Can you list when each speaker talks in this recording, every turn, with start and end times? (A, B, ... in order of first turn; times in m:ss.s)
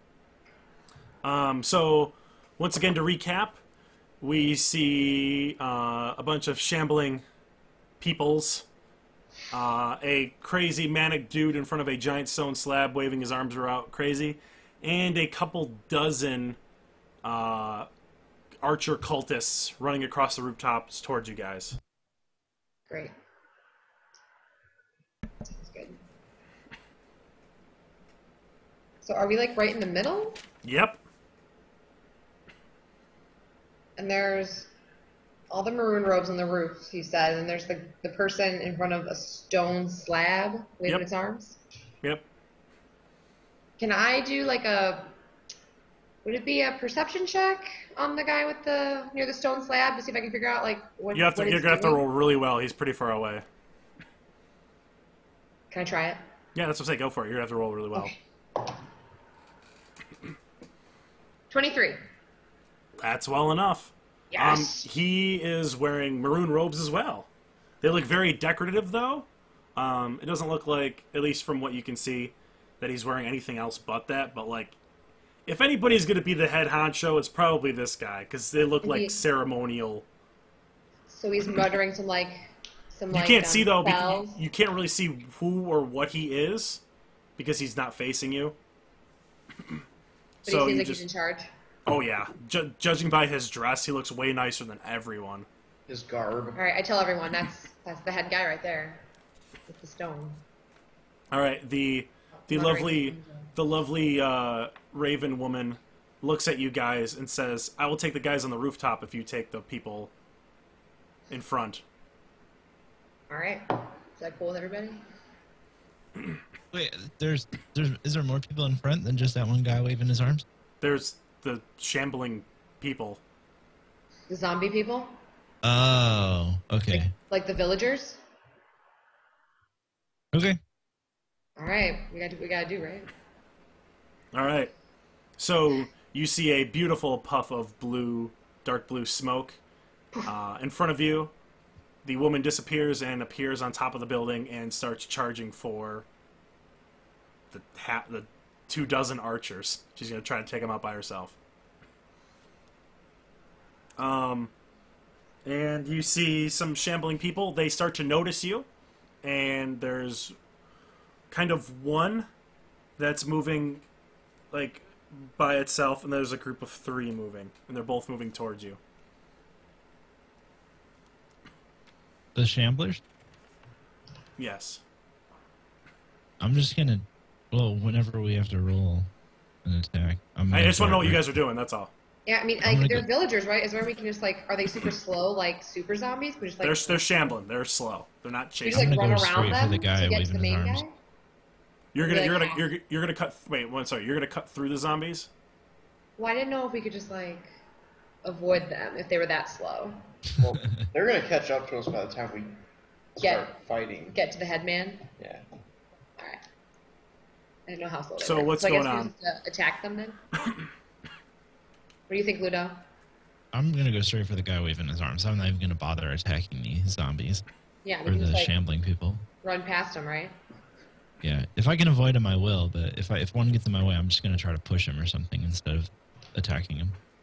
0:01.2-0:03.6 A
0:04.2-0:07.2 A
0:08.0-0:08.7 A
0:09.5-0:16.6 A
0:17.2-0:17.9 A
0:18.6-0:21.8 A
0:22.9-0:23.1 B
0:25.4-0:26.0 B
0:29.0-0:30.4 B
0:30.6-0:31.0 A
0:34.0-0:34.7 B
0:35.5-0:41.6 B
0:43.8-0:45.1 B
0:46.2-0:52.0 B
0:51.1-0:53.4 A
0:55.7-0:56.2 B
0:56.6-0:58.1 A
1:01.5-1:02.0 B
1:03.0-1:07.3 A
1:04.3-1:04.8 B
1:07.8-1:14.8 A
1:15.5-1:20.1 A
1:18.8-1:19.2 B
1:21.1-1:24.4 B
1:23.1-1:26.8 A
1:27.4-1:28.6 A
1:30.4-1:31.0 A
1:30.4-1:31.5 B
1:31.9-1:35.5 A
1:35.9-1:36.6 C
1:36.6-1:39.0 B
1:39.7-1:40.4 B
1:41.3-1:50.1 A
1:42.5-1:43.5 B
1:51.3-1:51.8 A
1:53.3-1:55.0 B
1:56.7-2:00.4 D
2:00.8-2:03.2 A
2:04.3-2:05.2 B
2:05.6-2:07.1 D
2:06.9-2:08.2 B
2:10.3-2:10.6 D
2:11.6-2:13.1 B
2:14.3-2:14.7 A
2:15.4-2:19.6 A
2:20.2-2:21.3 A
2:22.0-2:26.1 A
2:27.5-2:31.4 A
2:34.0-2:34.5 A
2:35.4-2:38.7 A
2:39.2-2:40.4 A
2:41.3-2:42.3 A
2:43.0-2:43.9 A
2:44.5-2:48.8 A
2:52.4-2:53.0 D
2:54.4-2:54.8 A
2:56.4-2:59.1 D
2:59.6-3:01.2 D
3:00.5-3:01.9 A
3:02.3-3:07.0 B
3:02.6-3:03.1 D
3:06.6-3:08.9 A
3:08.6-3:10.9 B
3:08.6-3:10.8 D
3:11.9-3:15.3 A
3:12.0-3:12.6 B
3:16.2-3:17.5 B
3:18.2-3:20.0 B
3:20.4-3:22.5 C
3:23.2-3:24.2 C
3:23.2-3:23.5 B
3:24.1-3:25.1 B
3:25.2-3:25.5 C
3:27.7-3:30.2 B
3:28.2-3:29.1 A
3:32.1-3:32.8 B
3:33.5-3:37.4 D
3:37.8-3:38.5 B
3:38.1-3:39.2 D
3:39.4-3:40.4 B
3:41.2-3:47.0 D